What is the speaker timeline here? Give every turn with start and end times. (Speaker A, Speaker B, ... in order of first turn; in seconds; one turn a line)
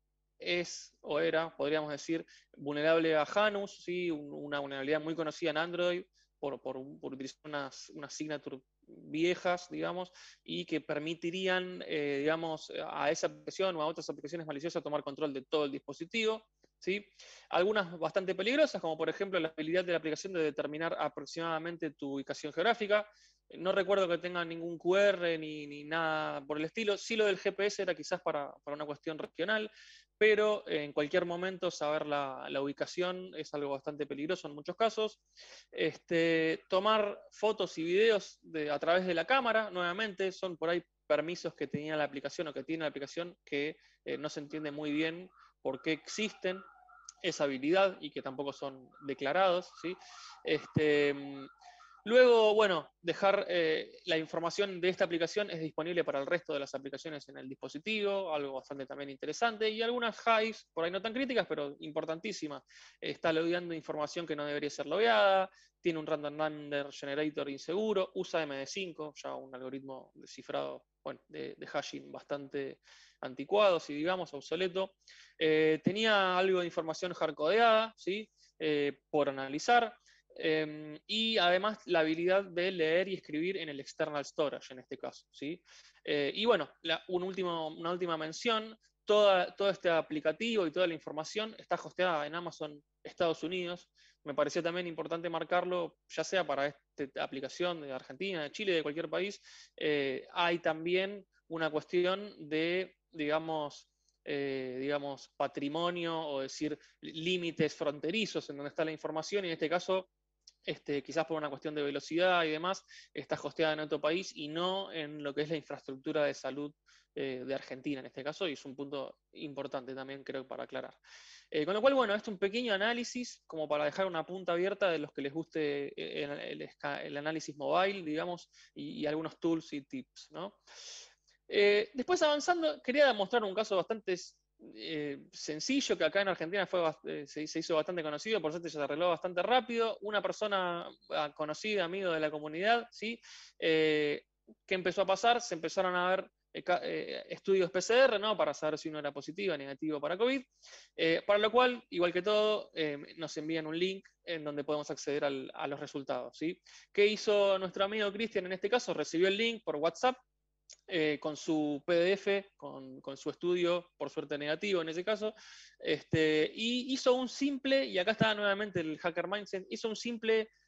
Speaker A: 0.4-46.6
Speaker A: 47.2-51.5
Speaker A: 52.0-110.1
Speaker A: 110.7-121.0
Speaker A: 121.5-130.6
Speaker A: 131.5-160.2
Speaker A: 160.9-170.5